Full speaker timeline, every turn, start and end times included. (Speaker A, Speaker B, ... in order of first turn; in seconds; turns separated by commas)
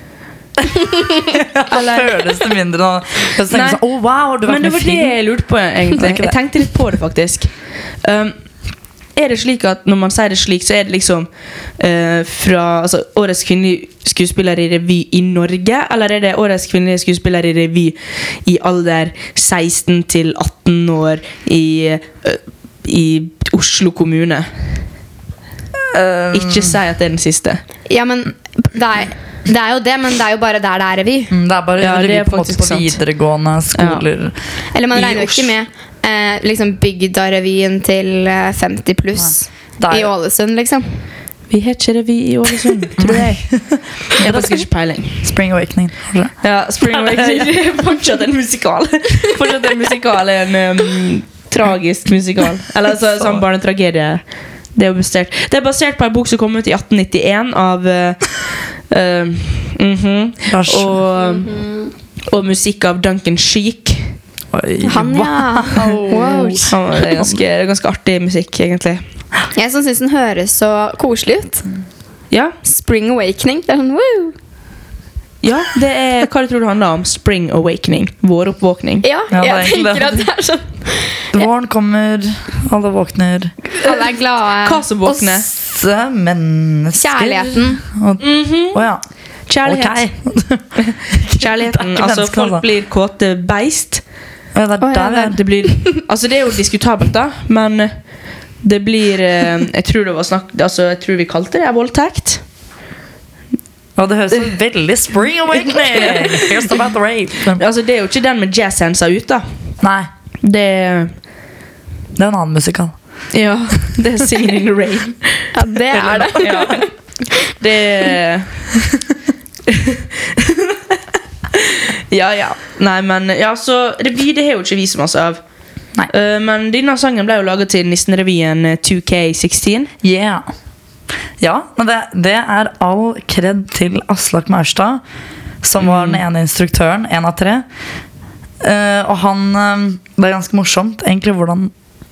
Speaker A: 1.2-5.2, Speaker B: 1.7-2.3, Speaker B: 3.5-3.8, Speaker B: 4.4-7.5, Speaker A: 6.0-6.3, Speaker B: 8.0-8.3, Speaker B: 9.1-24.5, Speaker A: 25.9-26.8, Speaker B: 26.3-27.6, Speaker C: 27.9-31.3, Speaker A: 31.3-34.3, Speaker B: 31.8-33.0, Speaker B: 33.7-34.0, Speaker C: 34.7-41.0, Speaker B: 34.9-35.5, Speaker A: 39.2-40.1, Speaker B: 41.5-45.2, Speaker A: 43.0-44.6, Speaker A: 45.2-47.5, Speaker B: 46.4-61.5, Speaker A: 53.1-53.4, Speaker A: 60.5-61.0, Speaker C: 61.2-61.9, Speaker B: 62.3-64.2, Speaker A: 64.5-67.3, Speaker C: 64.8-66.7, Speaker B: 66.7-69.0, Speaker C: 69.5-71.6, Speaker C: 72.6-74.3, Speaker B: 75.4-79.0, Speaker C: 79.0-81.4, Speaker A: 79.3-80.3, Speaker A: 81.3-83.5, Speaker C: 83.8-85.3, Speaker B: 84.6-85.5, Speaker A: 85.4-89.0, Speaker C: 87.0-87.8, Speaker B: 88.2-88.8, Speaker B: 89.5-90.1, Speaker A: 89.6-92.6, Speaker B: 90.8-94.0, Speaker A: 94.5-95.4, Speaker C: 94.8-96.0, Speaker B: 95.3-98.0, Speaker B: 98.6-102.4, Speaker A: 104.0-107.6, Speaker B: 105.7-106.6, Speaker B: 107.5-109.4, Speaker A: 109.8-110.1, Speaker B: 110.4-111.1, Speaker A: 112.2-112.9, Speaker B: 113.3-115.5, Speaker C: 115.5-116.9, Speaker A: 115.9-116.8, Speaker B: 116.3-118.8, Speaker B: 119.7-121.0, Speaker B: 121.5-125.4, Speaker B: 126.1-129.9, Speaker A: 130.0-130.4, Speaker A: 131.4-135.0, Speaker A: 135.6-137.6, Speaker B: 135.8-136.2, Speaker A: 138.6-141.7